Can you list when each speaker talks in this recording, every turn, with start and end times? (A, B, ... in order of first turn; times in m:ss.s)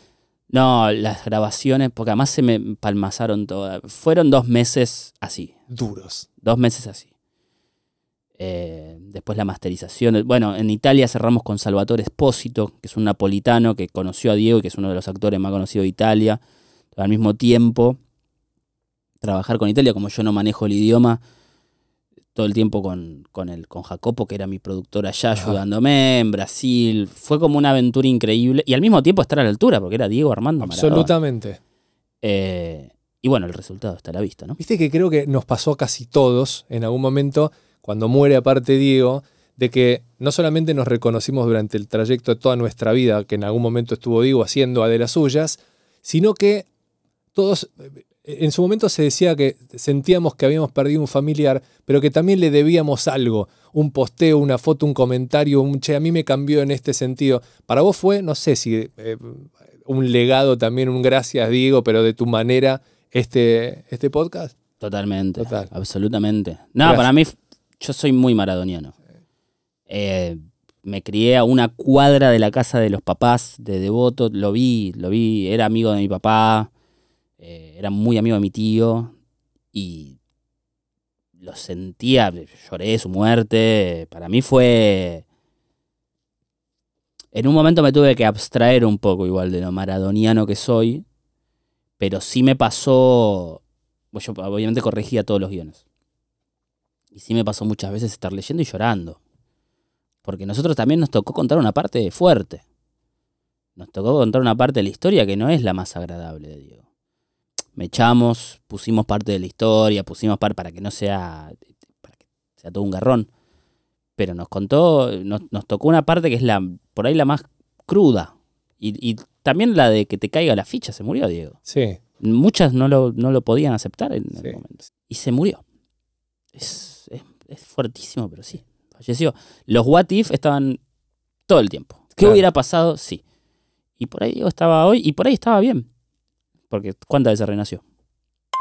0:00.5-0:05.5 A
0:05.7-0:06.3 B
0:06.4-0:07.1 A
0:08.4-0:16.4 A
0:17.0-0:18.0 A
0:19.2-0:21.2 A
0:22.4-0:31.1 A
0:30.6-0:31.6 B
0:32.2-0:34.6 A
0:34.6-0:46.7 B
0:47.4-1:04.6 B
1:04.8-1:09.0 A
1:05.4-1:05.7 B
1:06.8-1:07.1 B
1:09.9-1:16.7 A
1:17.4-1:19.1 A
1:19.7-1:20.2 A
1:21.4-1:25.2 A
1:27.3-1:31.0 A
1:32.0-1:35.8 A
1:37.1-1:39.2 A
1:40.2-1:42.6 A
1:43.8-1:46.8 A
1:47.8-1:53.3 A
1:54.2-2:01.6 A
2:01.7-2:02.0 B
2:02.2-2:05.6 A
2:06.6-2:10.8 A
2:11.5-2:13.2 A
2:14.0-2:15.9 A
2:16.7-2:17.8 A